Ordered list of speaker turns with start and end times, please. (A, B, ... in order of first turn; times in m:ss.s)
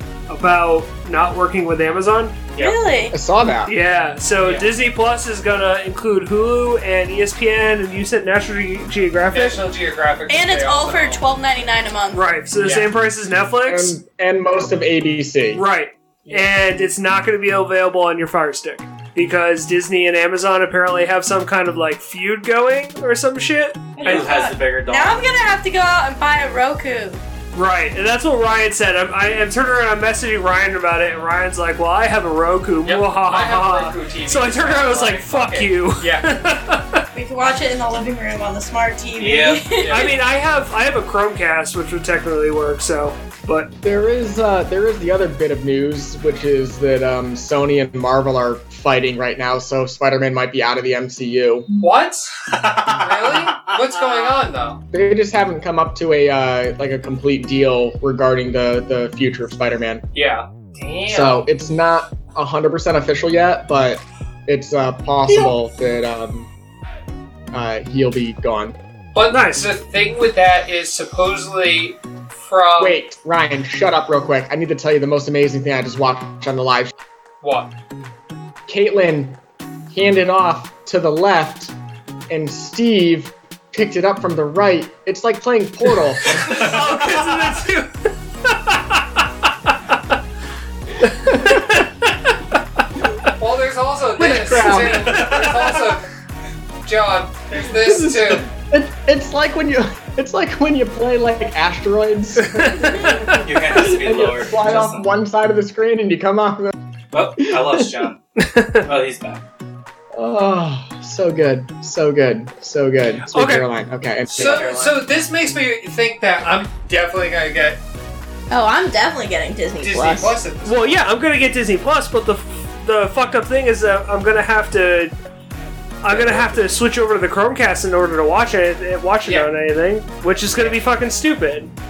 0:00.3-0:02.4 A
0:02.6-0:03.2 B
0:03.1-0:03.7 C
0:03.6-0:09.6 A
0:04.4-0:04.7 D
0:09.3-0:11.2 D
0:10.3-0:12.3 B
0:12.1-0:14.0 A
0:12.6-0:12.9 D
0:13.6-0:15.6 C
0:15.5-0:24.3 A
0:24.0-0:27.2 B
0:24.0-0:25.3 E
0:27.5-0:37.0 A
0:32.8-0:36.3 D
0:37.1-0:40.2 B
0:39.2-0:39.7 E
0:39.8-0:40.1 D
0:39.9-0:43.7 A
0:43.8-0:51.7 C
0:51.8-0:52.4 D
0:52.5-0:53.8 E
0:52.9-0:54.8 D
0:54.9-1:00.0 C
1:00.1-1:01.4 D
1:01.1-1:06.5 C
1:07.5-1:08.8 C
1:09.1-1:13.0 D
1:09.3-1:09.7 A
1:12.8-1:16.9 C
1:17.4-1:17.7 D
1:18.7-1:21.7 C
1:22.3-1:26.5 C
1:26.3-1:27.9 A
1:28.5-1:30.0 A
1:31.0-1:32.4 A
1:31.1-1:31.8 C
1:33.4-1:36.0 D
1:34.2-1:35.2 C
1:35.0-1:35.6 E
1:36.8-1:38.5 D
1:37.6-1:46.7 C
1:42.4-1:43.4 A
1:43.2-1:45.0 E
1:47.1-1:48.2 E
1:47.4-1:48.0 C
1:48.4-1:48.9 A
1:48.8-1:49.4 E
1:50.1-1:54.9 C
1:53.3-1:53.7 A
1:54.3-1:57.8 D
1:54.4-1:54.9 B
1:58.5-2:00.4 B
1:59.8-2:01.0 D
2:00.6-2:05.1 A
2:06.0-2:11.7 A
2:06.1-2:06.7 E
2:09.2-2:09.5 D
2:10.5-2:10.8 D